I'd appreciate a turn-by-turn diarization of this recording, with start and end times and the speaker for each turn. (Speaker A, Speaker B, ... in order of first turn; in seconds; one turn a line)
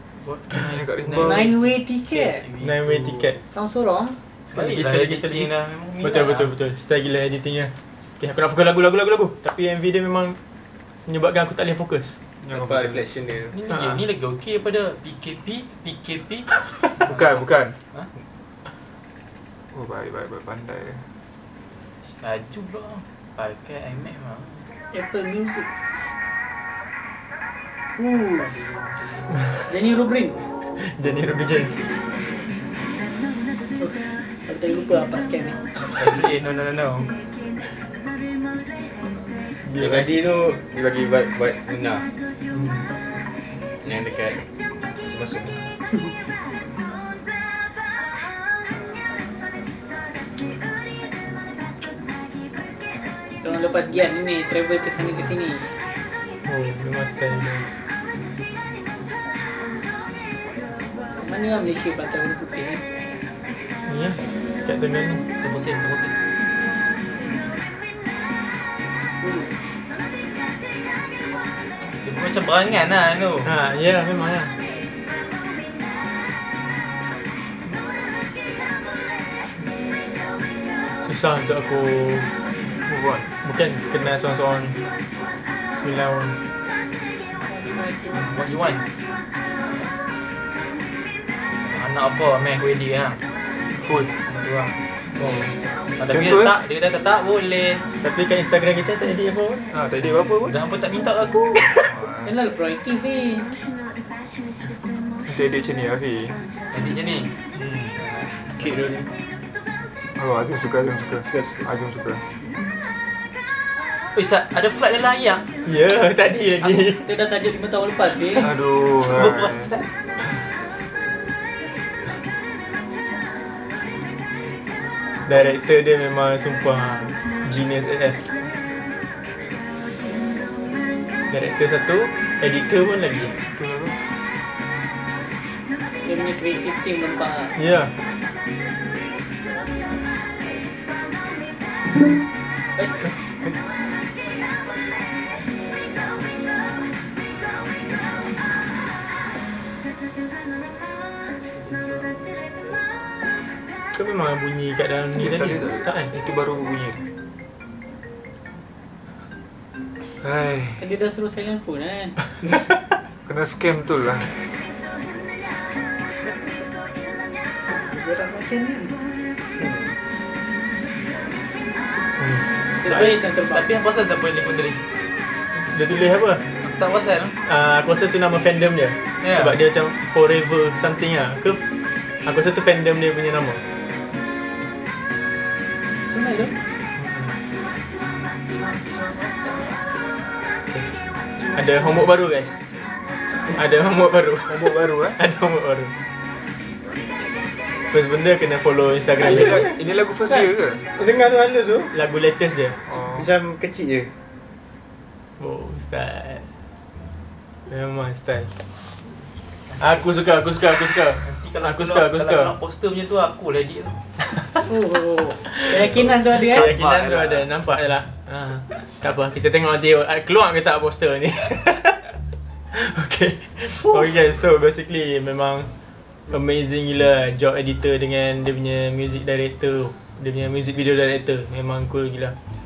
Speaker A: 0.2-3.3
Speaker B: 0.6-1.5
Speaker C: 1.2-2.4
Speaker D: 2.6-3.4
Speaker C: 3.5-4.2
Speaker D: 4.5-10.4
Speaker A: 4.5-6.5
Speaker D: 11.1-12.2
Speaker B: 12.4-13.1
Speaker E: 12.5-13.5
Speaker A: 13.5-18.1
Speaker D: 13.7-14.0
Speaker B: 17.0-17.8
Speaker B: 19.7-21.0
Speaker A: 22.0-24.7
Speaker C: 24.9-25.7
Speaker C: 28.0-28.5
Speaker A: 28.3-29.5
Speaker C: 29.7-30.5
Speaker D: 30.8-31.8
Speaker C: 33.8-35.6
Speaker A: 36.0-37.1
Speaker D: 39.6-40.2
Speaker E: 39.8-42.1
Speaker A: 42.5-42.8
Speaker E: 43.8-44.4
Speaker E: 45.0-45.6
Speaker C: 53.4-55.7
Speaker D: 56.5-57.7
Speaker C: 61.2-62.8
Speaker D: 63.9-65.2
Speaker A: 65.4-66.1
Speaker C: 69.2-69.5
Speaker A: 71.9-73.6
Speaker D: 73.4-74.5
Speaker D: 81.0-82.3
Speaker B: 82.9-83.3
Speaker D: 83.3-84.8
Speaker D: 85.7-86.4
Speaker C: 87.5-88.3
Speaker A: 88.1-88.8
Speaker A: 91.6-93.2
Speaker B: 93.8-94.1
Speaker A: 94.1-95.4
Speaker A: 96.0-97.8
Speaker B: 96.1-96.5
Speaker D: 98.0-99.6
Speaker B: 99.7-100.6
Speaker A: 100.4-101.9
Speaker B: 101.8-102.3
Speaker C: 102.2-103.5
Speaker B: 105.3-106.3
Speaker A: 106.7-107.3
Speaker B: 107.5-107.9
Speaker A: 108.0-108.7
Speaker E: 108.6-109.0
Speaker B: 110.2-112.2
Speaker E: 111.3-111.7
Speaker A: 114.1-115.5
Speaker D: 115.6-117.0
Speaker C: 116.7-118.5
Speaker B: 118.3-119.7
Speaker A: 119.0-119.9
Speaker D: 125.2-128.3
Speaker D: 131.3-133.3
Speaker B: 133.5-134.0
Speaker C: 136.0-137.6
Speaker D: 137.5-137.9
Speaker A: 151.5-152.8
Speaker D: 153.9-156.1
Speaker B: 155.2-157.0
Speaker B: 160.2-160.8
Speaker C: 160.8-162.2
Speaker B: 163.2-164.3
Speaker C: 167.7-168.9
Speaker E: 169.5-169.9
Speaker D: 172.2-173.1
Speaker C: 172.8-173.7
Speaker A: 173.5-174.8
Speaker D: 175.5-176.4
Speaker A: 176.6-177.3
Speaker D: 177.4-181.6
Speaker A: 179.2-179.6
Speaker D: 182.2-183.6
Speaker C: 186.1-186.5
Speaker D: 187.0-187.3
Speaker D: 191.5-192.6
Speaker D: 193.5-195.9
Speaker B: 194.5-195.2
Speaker D: 197.9-199.7
Speaker B: 199.2-200.8
Speaker E: 199.2-199.7
Speaker E: 200.9-201.9
Speaker D: 201.9-202.8
Speaker B: 202.9-203.3
Speaker E: 203.0-204.2
Speaker D: 205.4-206.5
Speaker D: 207.7-208.5
Speaker A: 209.7-210.1
Speaker D: 209.8-212.5
Speaker A: 211.2-214.0
Speaker C: 214.7-216.7
Speaker D: 215.5-222.2
Speaker B: 215.7-217.6
Speaker D: 222.7-225.7
Speaker D: 226.3-232.3